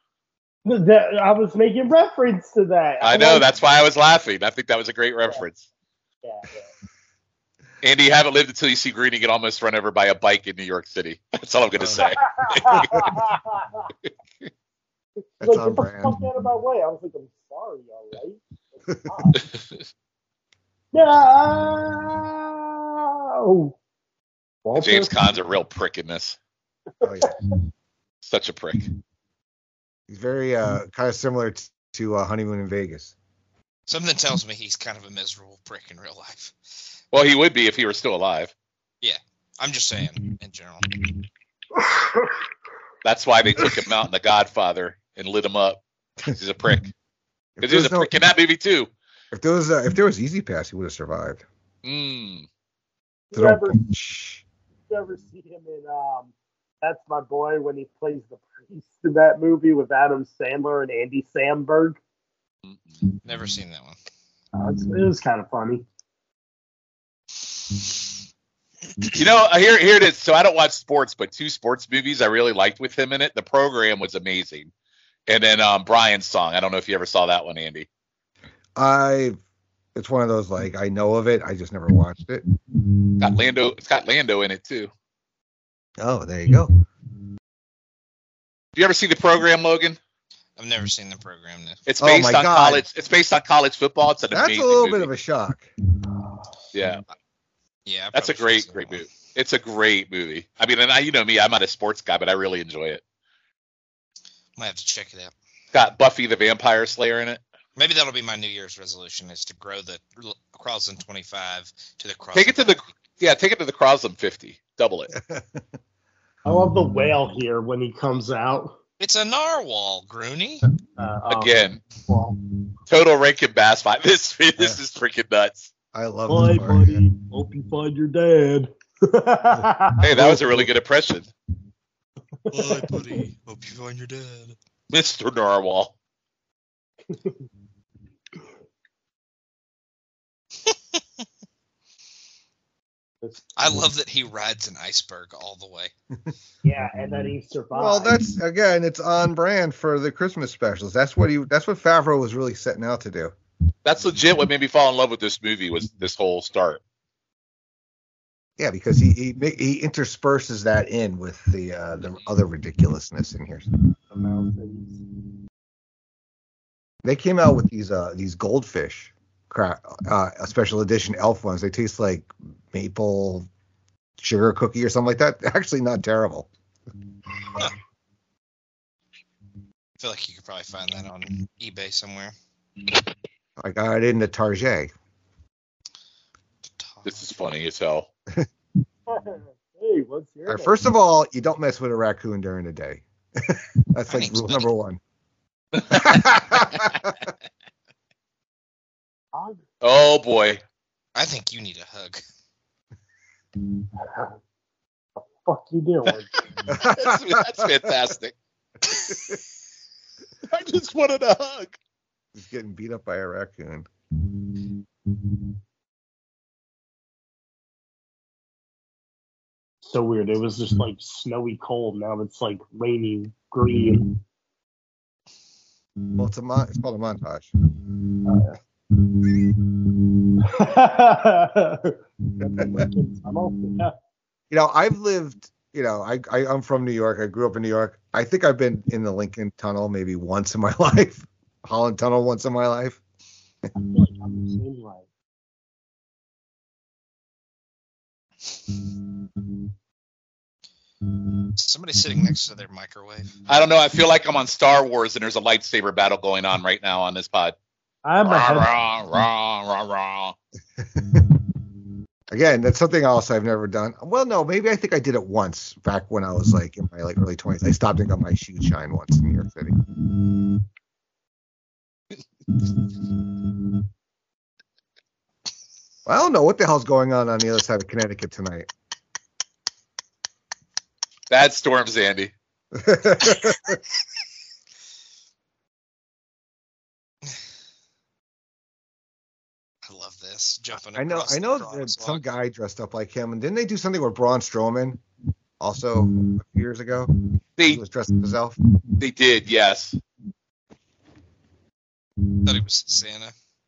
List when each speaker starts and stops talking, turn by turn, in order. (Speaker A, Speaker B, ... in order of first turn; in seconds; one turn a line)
Speaker A: 0.7-3.4
Speaker B: 3.0-5.7
Speaker A: 6.2-6.7
Speaker B: 7.8-13.2
Speaker A: 12.0-13.9
Speaker C: 15.4-16.1
Speaker A: 15.4-19.4
Speaker B: 19.4-19.6
Speaker A: 20.9-23.7
Speaker A: 24.6-25.1
Speaker B: 24.8-26.4
Speaker C: 27.0-27.3
Speaker A: 27.0-27.3
Speaker B: 28.2-28.9
Speaker C: 30.1-33.1
Speaker D: 33.9-36.5
Speaker B: 37.1-38.5
Speaker D: 39.0-40.9
Speaker B: 43.0-46.9
Speaker C: 47.6-48.1
Speaker B: 47.6-48.9
Speaker C: 49.3-51.4
Speaker B: 51.8-52.5
Speaker A: 53.3-53.8
Speaker C: 53.3-54.4
Speaker A: 54.9-62.0
Speaker B: 62.6-62.9
Speaker D: 63.2-64.0
Speaker A: 64.5-65.8
Speaker B: 69.1-74.7
Speaker B: 75.3-77.8
Speaker C: 78.8-79.4
Speaker C: 79.9-82.4
Speaker B: 83.2-84.9
Speaker C: 86.0-86.7
Speaker B: 88.8-90.0
Speaker D: 90.6-91.8
Speaker B: 91.8-95.1
Speaker C: 92.0-92.8
Speaker C: 94.3-95.7
Speaker B: 96.7-97.0
Speaker D: 97.8-99.1
Speaker B: 98.1-103.0
Speaker D: 104.6-105.3
Speaker B: 105.7-107.4
Speaker D: 107.8-112.8
Speaker B: 112.3-115.1
Speaker C: 115.1-115.6
Speaker A: 116.5-118.8
Speaker D: 119.0-120.6
Speaker A: 121.0-122.3
Speaker B: 121.3-121.8
Speaker B: 122.9-125.7
Speaker C: 125.9-127.0
Speaker A: 126.3-130.3
Speaker B: 130.0-131.3
Speaker C: 130.1-130.7
Speaker A: 132.4-133.2
Speaker D: 132.5-134.5
Speaker B: 134.9-135.9
Speaker A: 143.2-143.5
Speaker D: 143.6-145.9
Speaker A: 146.6-148.2
Speaker C: 147.7-153.3
Speaker B: 153.8-156.8
Speaker C: 158.6-163.7
Speaker A: 164.1-165.0
Speaker C: 167.0-173.5
Speaker C: 174.2-176.5
Speaker D: 180.0-182.3
Speaker C: 183.6-184.9
Speaker D: 186.6-187.2
Speaker B: 187.0-188.1
Speaker A: 189.1-190.8
Speaker C: 190.5-195.0
Speaker D: 194.1-194.7
Speaker C: 195.8-197.1
Speaker A: 199.3-199.6
Speaker B: 199.8-200.6
Speaker D: 201.1-202.2
Speaker A: 204.0-204.3
Speaker A: 205.3-206.4
Speaker C: 206.7-207.6
Speaker B: 206.8-208.3
Speaker C: 209.0-209.4
Speaker B: 210.5-211.8
Speaker C: 212.3-213.9
Speaker A: 219.8-224.1
Speaker C: 226.1-227.5
Speaker A: 228.2-228.6
Speaker A: 230.4-233.9
Speaker C: 234.5-243.0
Speaker A: 243.8-245.0
Speaker D: 251.6-253.3
Speaker B: 253.5-257.6
Speaker A: 258.0-258.7
Speaker B: 258.2-260.4
Speaker C: 260.8-261.3
Speaker C: 262.3-269.8
Speaker C: 276.1-278.7
Speaker B: 281.3-282.3
Speaker C: 282.7-283.8
Speaker D: 289.9-292.2
Speaker C: 290.9-295.0
Speaker C: 295.6-297.1
Speaker C: 297.6-298.6
Speaker B: 299.0-300.0
Speaker D: 302.4-303.3